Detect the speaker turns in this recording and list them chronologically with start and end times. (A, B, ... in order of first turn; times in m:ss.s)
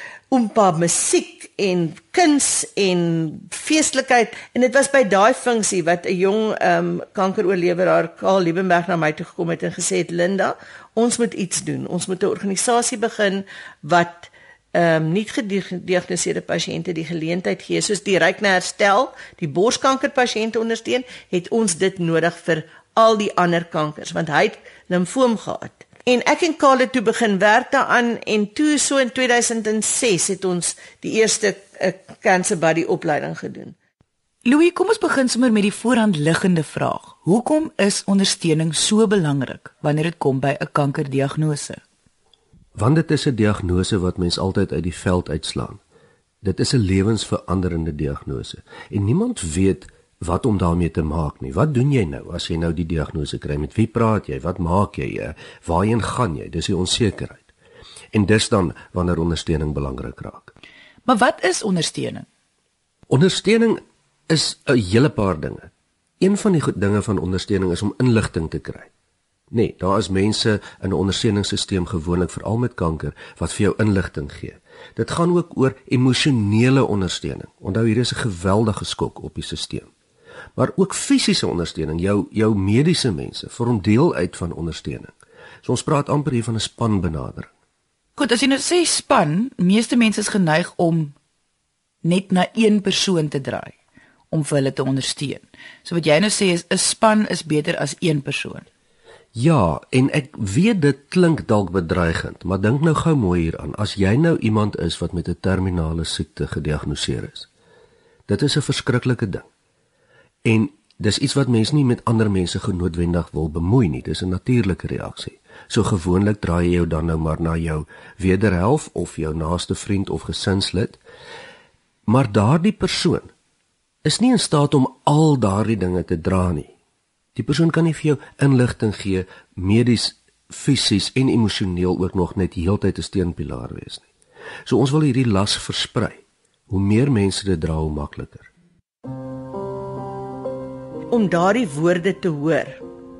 0:00.3-0:33.8 A
0:34.4-0:41.8 B
0:42.7-0:45.8 C
0:46.4-0:57.5 C
0:58.1-1:00.5 C
1:01.0-1:02.2 B
1:03.1-1:08.9 C
1:09.5-1:19.9 C
1:20.6-1:27.5 C
1:28.2-1:31.2 B
1:32.0-1:33.8 B
1:34.3-1:38.6 B
1:39.3-1:47.5 C
1:48.3-1:49.4 C
1:50.4-2:01.0 C
2:02.1-2:03.3 C
2:04.0-2:06.7 C
2:07.3-2:14.1 C
2:14.6-2:18.5 C
2:21.1-2:22.8 A